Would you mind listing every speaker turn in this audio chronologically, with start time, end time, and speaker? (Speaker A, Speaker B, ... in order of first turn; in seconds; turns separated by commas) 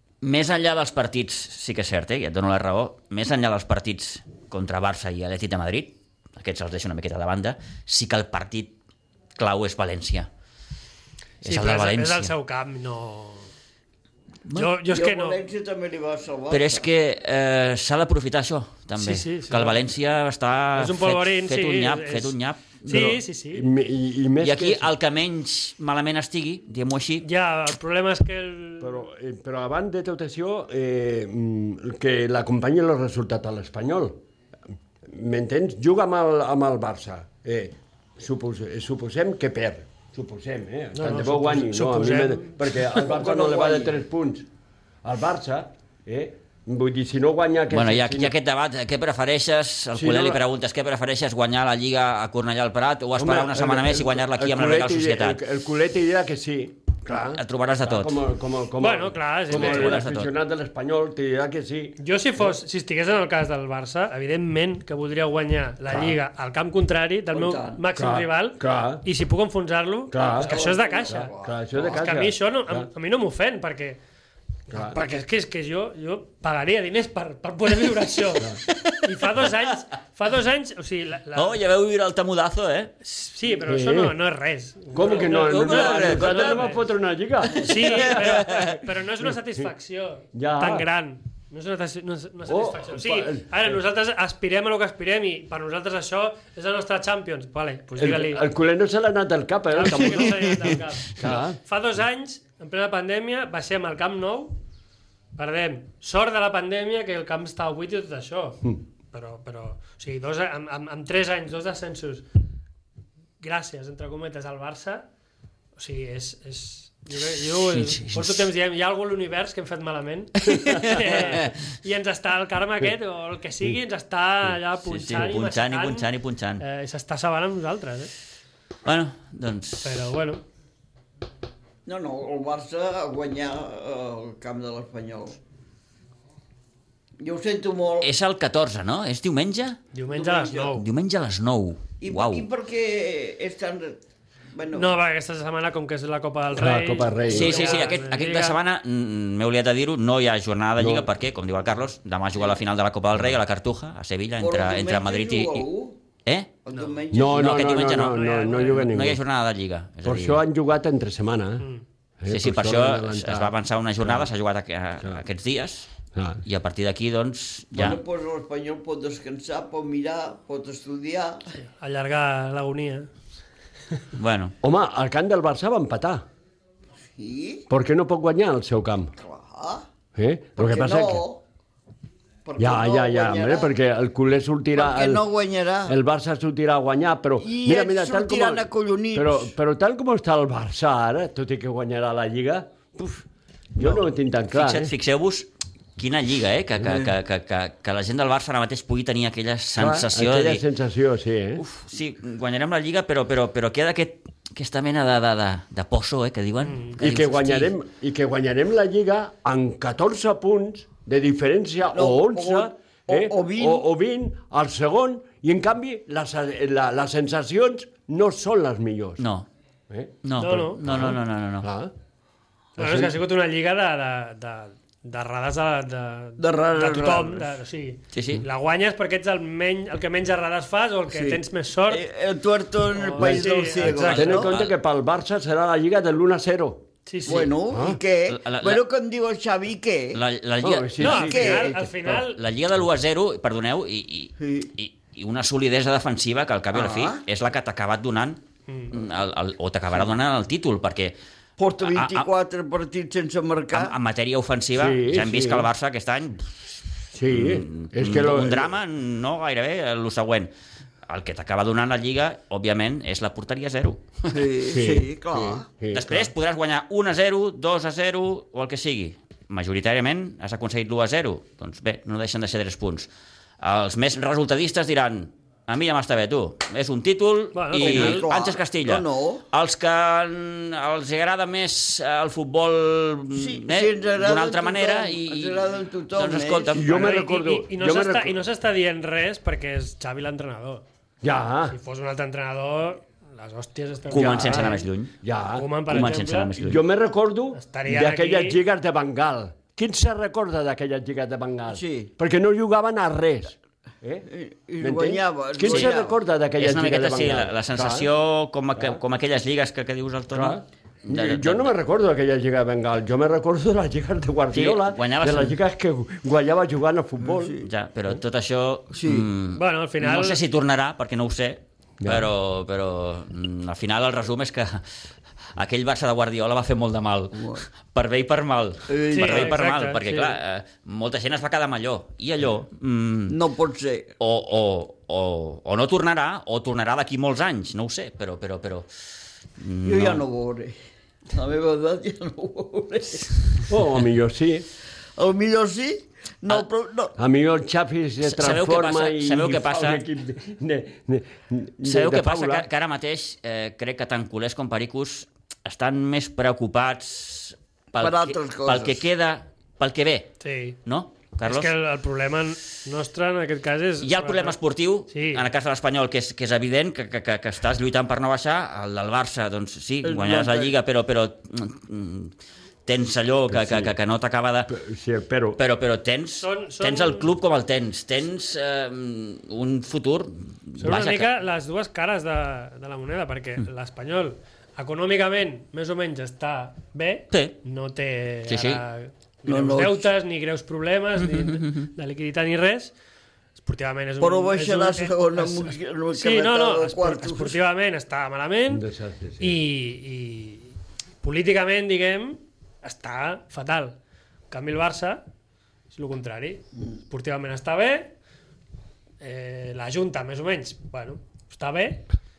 Speaker A: 0.2-8.7, Speaker A: 9.4-10.3, Speaker A: 11.4-12.3, Speaker B: 11.4-13.5, Speaker A: 14.5-14.7, Speaker B: 14.5-15.4, Speaker C: 14.9-16.9, Speaker A: 16.5-23.2, Speaker B: 19.0-19.9, Speaker B: 20.8-23.7, Speaker D: 23.5-24.9, Speaker A: 24.4-27.3, Speaker B: 27.2-29.0, Speaker D: 28.8-34.2, Speaker D: 35.0-44.5, Speaker B: 40.9-43.0, Speaker C: 43.0-44.0, Speaker D: 45.0-48.3, Speaker A: 47.7-55.4, Speaker D: 50.0-50.4, Speaker D: 53.2-62.6, Speaker A: 57.4-58.2, Speaker B: 58.8-60.0, Speaker A: 59.5-60.3, Speaker B: 62.0-74.0, Speaker D: 65.9-66.2, Speaker C: 67.3-67.8, Speaker D: 68.0-69.0, Speaker D: 70.1-70.6, Speaker C: 70.4-72.0, Speaker D: 71.1-72.9, Speaker B: 74.7-81.6, Speaker D: 74.7-75.0, Speaker D: 78.4-78.6, Speaker A: 78.7-79.0, Speaker A: 81.3-82.9, Speaker B: 83.0-86.8, Speaker D: 83.6-84.2, Speaker D: 84.9-88.4, Speaker A: 85.0-86.8, Speaker A: 87.4-88.8, Speaker B: 87.6-98.5, Speaker D: 90.3-90.9, Speaker D: 92.5-93.8, Speaker D: 98.0-101.6, Speaker B: 99.7-104.5, Speaker B: 105.4-112.3, Speaker B: 113.4-115.1, Speaker B: 115.8-126.1, Speaker A: 117.3-118.5, Speaker A: 120.5-121.5, Speaker A: 124.8-126.6, Speaker B: 126.6-128.1, Speaker A: 128.8-130.1, Speaker B: 129.8-130.4, Speaker C: 131.9-135.4, Speaker C: 137.2-138.1, Speaker A: 138.0-139.8, Speaker B: 139.9-140.9, Speaker C: 140.1-140.8, Speaker A: 140.7-142.5, Speaker C: 142.0-144.0, Speaker C: 144.5-145.0, Speaker B: 144.7-148.6, Speaker D: 146.5-147.7, Speaker A: 147.3-155.7, Speaker D: 150.8-151.1, Speaker C: 154.4-156.0, Speaker A: 156.2-156.5, Speaker C: 156.7-157.9, Speaker B: 156.7-156.9, Speaker D: 157.1-159.2, Speaker A: 157.3-160.4, Speaker B: 158.1-158.9, Speaker D: 160.0-161.7, Speaker D: 162.2-164.3, Speaker A: 162.3-165.9, Speaker D: 166.1-166.4, Speaker A: 166.4-168.0, Speaker C: 167.7-171.5, Speaker B: 171.6-173.1, Speaker A: 174.2-174.6, Speaker D: 174.6-176.2, Speaker C: 177.2-177.7, Speaker D: 177.7-179.1, Speaker C: 179.2-179.9, Speaker D: 180.1-181.3, Speaker C: 180.6-181.4, Speaker C: 182.4-183.7, Speaker D: 182.6-185.3, Speaker C: 184.8-186.0, Speaker D: 185.9-194.9, Speaker C: 187.4-189.5, Speaker A: 194.5-200.6, Speaker D: 199.8-201.6, Speaker A: 201.6-207.7, Speaker B: 206.7-206.9, Speaker D: 207.0-219.3, Speaker C: 211.9-213.8, Speaker A: 219.2-219.5, Speaker D: 219.9-221.9, Speaker A: 220.2-221.7, Speaker B: 220.3-220.8, Speaker D: 222.8-223.2, Speaker B: 222.8-232.0, Speaker C: 226.4-227.6, Speaker A: 228.1-228.4, Speaker C: 231.1-234.5, Speaker B: 232.9-234.4, Speaker D: 233.2-236.9, Speaker A: 234.3-234.7, Speaker B: 237.1-237.5, Speaker C: 237.3-240.2, Speaker D: 237.7-238.0, Speaker A: 238.3-238.8, Speaker A: 240.1-251.2, Speaker D: 240.6-242.2, Speaker B: 241.0-242.4, Speaker C: 241.2-241.7, Speaker C: 244.4-244.7, Speaker C: 246.7-247.2, Speaker B: 248.7-248.9, Speaker C: 251.6-253.9, Speaker A: 251.8-252.3, Speaker A: 253.7-260.5, Speaker D: 254.8-255.7, Speaker D: 257.1-258.7, Speaker A: 261.1-264.5, Speaker C: 264.3-265.7, Speaker D: 264.7-266.3, Speaker A: 265.9-273.1, Speaker A: 273.6-286.9, Speaker B: 277.5-278.3, Speaker C: 277.8-279.4, Speaker C: 283.3-287.1, Speaker D: 286.7-288.4, Speaker B: 286.9-290.8, Speaker D: 291.2-291.8, Speaker B: 291.7-294.9, Speaker A: 294.1-295.1, Speaker D: 294.1-295.7, Speaker B: 295.5-296.5, Speaker A: 295.9-296.8, Speaker D: 296.6-304.3, Speaker B: 297.5-298.6, Speaker C: 301.7-302.1, Speaker C: 304.3-306.2, Speaker D: 304.8-308.1, Speaker A: 305.7-305.9, Speaker A: 306.6-311.7, Speaker D: 308.8-309.0, Speaker D: 310.3-318.2, Speaker A: 314.5-315.6, Speaker C: 317.2-317.7, Speaker A: 317.6-324.9, Speaker C: 318.9-319.3, Speaker B: 319.5-320.4, Speaker D: 322.0-322.3, Speaker A: 325.6-333.4, Speaker C: 327.4-327.6, Speaker C: 328.9-329.6, Speaker B: 329.1-330.4, Speaker C: 333.3-334.1, Speaker A: 334.2-338.9, Speaker A: 339.6-340.2, Speaker C: 339.8-340.7, Speaker C: 341.3-343.6, Speaker D: 343.7-344.7, Speaker C: 345.2-347.1, Speaker D: 347.2-352.7, Speaker A: 348.2-350.0, Speaker A: 351.8-361.7, Speaker C: 358.0-359.0, Speaker B: 360.4-360.8, Speaker B: 361.5-364.6, Speaker A: 364.0-372.3, Speaker B: 365.1-365.4, Speaker C: 370.0-370.7, Speaker A: 372.9-374.7, Speaker D: 373.5-373.9, Speaker D: 374.7-375.6, Speaker A: 375.6-381.3, Speaker B: 376.4-377.3, Speaker B: 380.8-392.9, Speaker A: 387.3-387.6, Speaker A: 388.5-388.8, Speaker C: 389.5-390.1, Speaker A: 391.2-391.9, Speaker B: 393.6-398.9, Speaker C: 394.2-397.6, Speaker D: 398.7-399.6, Speaker B: 399.4-404.0, Speaker B: 404.5-405.2, Speaker B: 405.9-408.1, Speaker B: 409.2-412.1